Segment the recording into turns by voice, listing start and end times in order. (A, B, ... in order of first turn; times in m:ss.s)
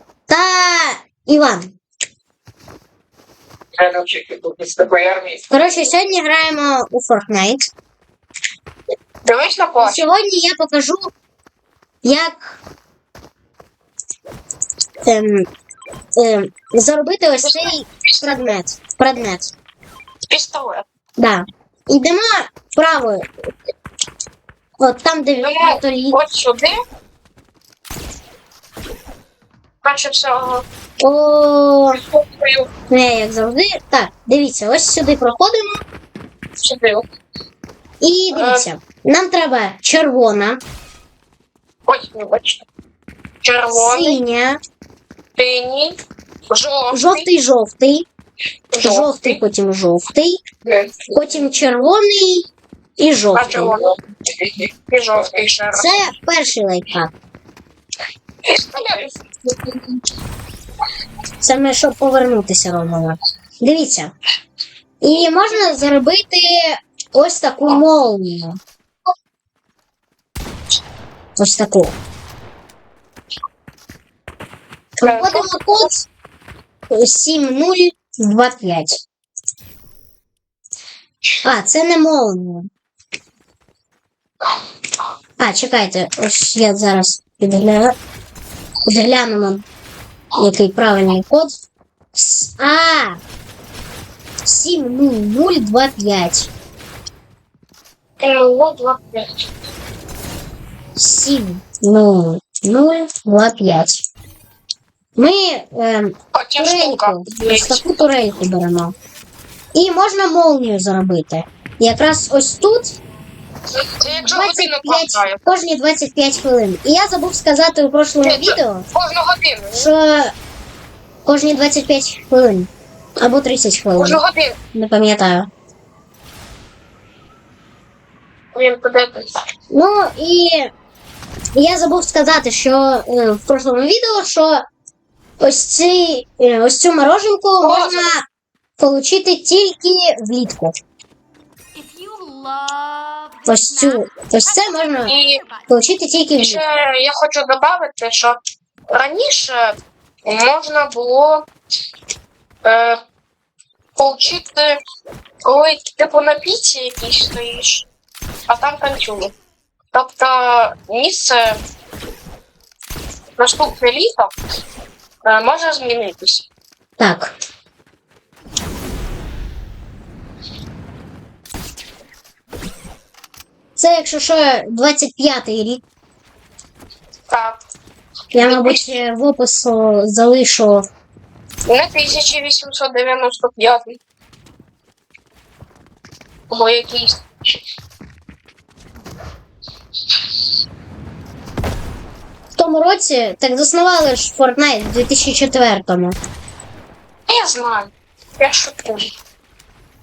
0:00.3-0:01.7 A
0:05.5-0:07.6 A
0:09.2-0:10.0 B
0:09.8-0:11.1 A
0:12.0-0:12.6 A
0:15.0-0:15.5 A
0:16.2-0:19.5 A
0:17.4-0:18.5 B
0:20.3-0:20.8 B
0:21.2-0:23.2 A
0:24.8-0:26.2 A
0:25.4-0:26.7 B
0:29.8-0:30.6 B
0:31.0-0:32.0 A
0:32.1-0:32.7 B
0:32.9-0:35.8 A
0:36.6-0:37.0 B
0:38.0-0:40.6 A
0:38.3-0:38.7 B
0:41.8-0:42.6 B
0:43.4-0:44.2 B
0:43.7-0:44.6 A
0:45.3-0:46.0 B
0:46.5-0:47.3 B
0:46.9-0:48.1 A
0:48.7-0:49.4 B
0:48.8-0:50.4 A
0:50.6-0:51.1 B
0:51.1-0:52.5 A
0:53.0-0:53.8 A
0:53.3-0:56.1 B
0:55.7-0:57.1 A
0:58.4-1:00.0 B
1:01.4-1:04.1 A
1:05.0-1:08.6 A
1:11.4-1:12.0 A
1:15.0-1:15.6 B
1:15.0-1:16.1 A
1:16.9-1:19.0 A
1:21.4-1:22.7 A
1:25.4-1:27.9 A
1:28.8-1:29.6 A
1:30.4-1:31.5 A
1:32.1-1:33.2 A
1:34.4-1:36.5 A
1:38.2-1:39.4 B
1:41.0-1:44.0 A
1:45.2-1:48.9 A
1:46.3-1:47.8 B
1:49.7-1:53.0 A
1:53.8-1:55.6 B
1:54.2-1:58.8 A
1:58.2-1:59.9 B
1:59.7-2:00.3 A
2:01.2-2:02.7 A
2:03.2-2:04.2 A
2:04.0-2:04.6 B
2:04.7-2:05.5 A
2:08.5-2:09.4 B
2:09.7-2:10.7 A
2:11.5-2:14.6 A
2:15.4-2:18.2 A
2:17.6-2:18.1 B
2:18.8-2:20.7 A
2:21.8-2:24.0 C
2:23.5-2:25.1 A
2:25.0-2:25.4 B
2:25.7-2:26.6 A
2:26.4-2:28.4 B
2:28.9-2:31.5 B
2:32.6-2:33.0 B
2:34.0-2:34.8 B
2:35.4-2:37.9 B
2:38.5-2:39.3 B
2:39.9-2:41.6 B
2:43.4-2:44.3 B
2:45.2-2:46.5 B
2:47.0-2:47.3 A
2:53.8-2:55.8 A
2:57.3-2:57.6 B
2:58.3-3:00.8 A
2:58.4-2:58.8 B
3:01.6-3:04.0 B
3:06.5-3:07.2 B
3:12.6-3:16.2 A
3:17.3-3:19.1 B